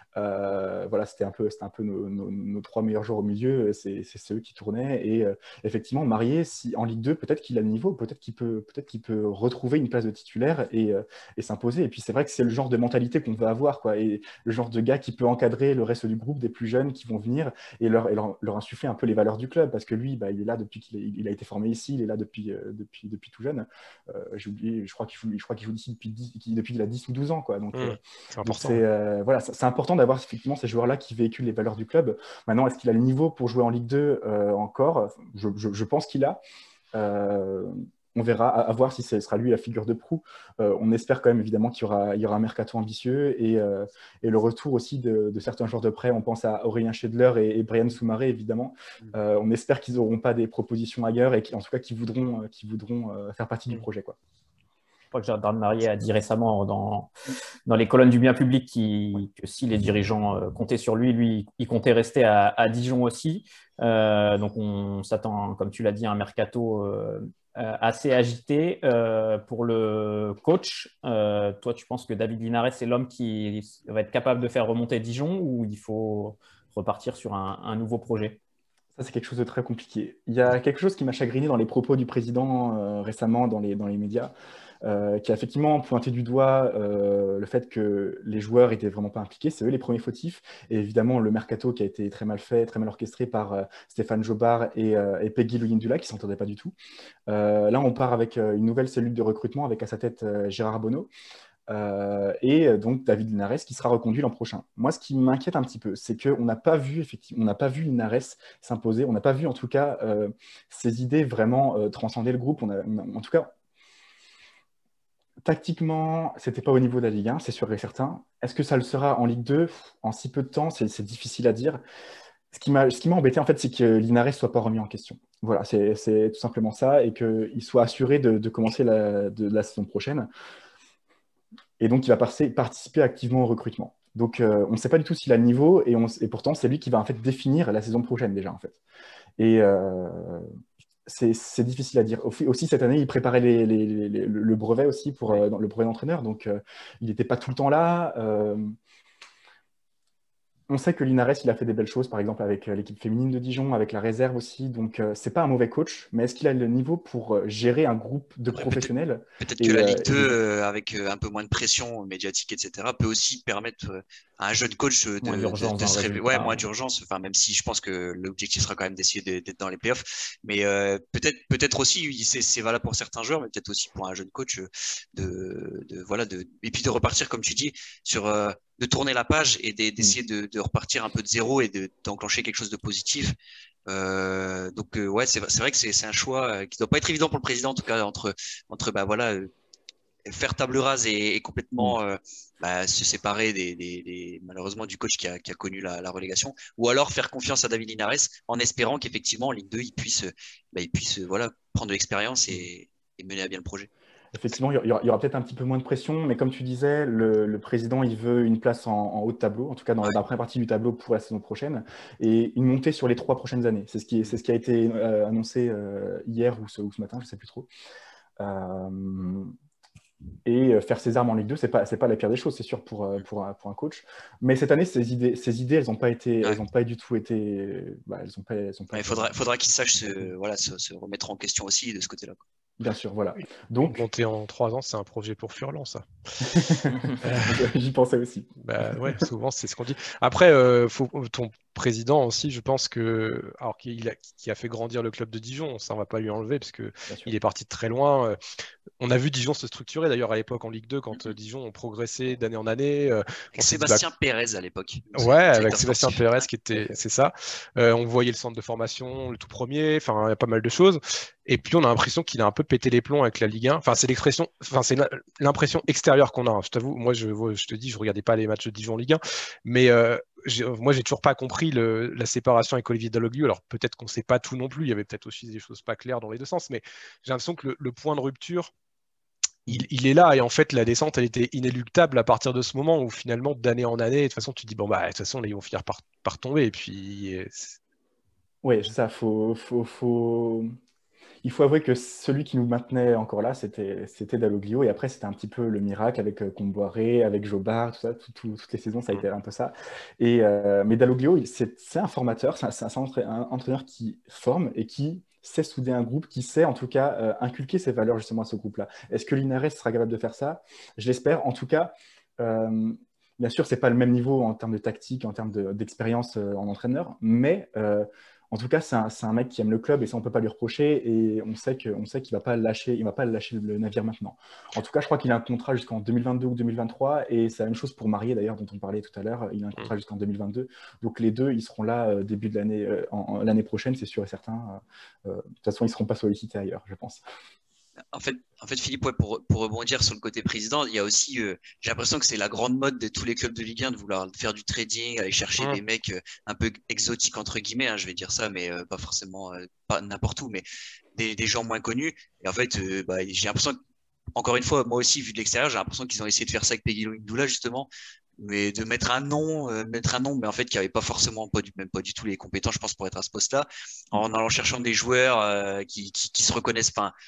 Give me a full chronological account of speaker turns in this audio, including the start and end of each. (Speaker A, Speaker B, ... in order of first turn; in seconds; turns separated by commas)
Speaker A: 0.1-36.4, Speaker B: 27.7-28.8, Speaker A: 36.9-54.1, Speaker C: 55.1-57.1, Speaker C: 57.7-78.4, Speaker A: 79.0-84.3, Speaker A: 84.8-96.7, Speaker A: 97.3-101.1, Speaker A: 101.7-113.5, Speaker A: 115.4-121.8, Speaker A: 122.5-130.3, Speaker A: 131.8-138.8, Speaker A: 139.4-140.5, Speaker A: 141.1-148.7, Speaker A: 150.7-160.4, Speaker D: 158.5-158.9, Speaker D: 159.4-183.3, Speaker C: 165.2-166.7, Speaker D: 183.9-189.5, Speaker D: 190.2-203.9, Speaker A: 204.3-217.7, Speaker A: 218.4-219.5, Speaker A: 220.4-229.4, Speaker D: 228.9-232.4, Speaker A: 232.8-234.0, Speaker B: 233.9-236.6, Speaker A: 236.5-238.5, Speaker B: 237.2-237.7, Speaker B: 238.6-248.4, Speaker B: 249.0-254.0, Speaker D: 253.6-256.4, Speaker B: 255.1-278.7, Speaker B: 279.7-287.8, Speaker A: 288.6-290.7, Speaker A: 291.4-337.2, Speaker D: 338.1-350.6, Speaker D: 351.1-353.8, Speaker D: 354.4-367.1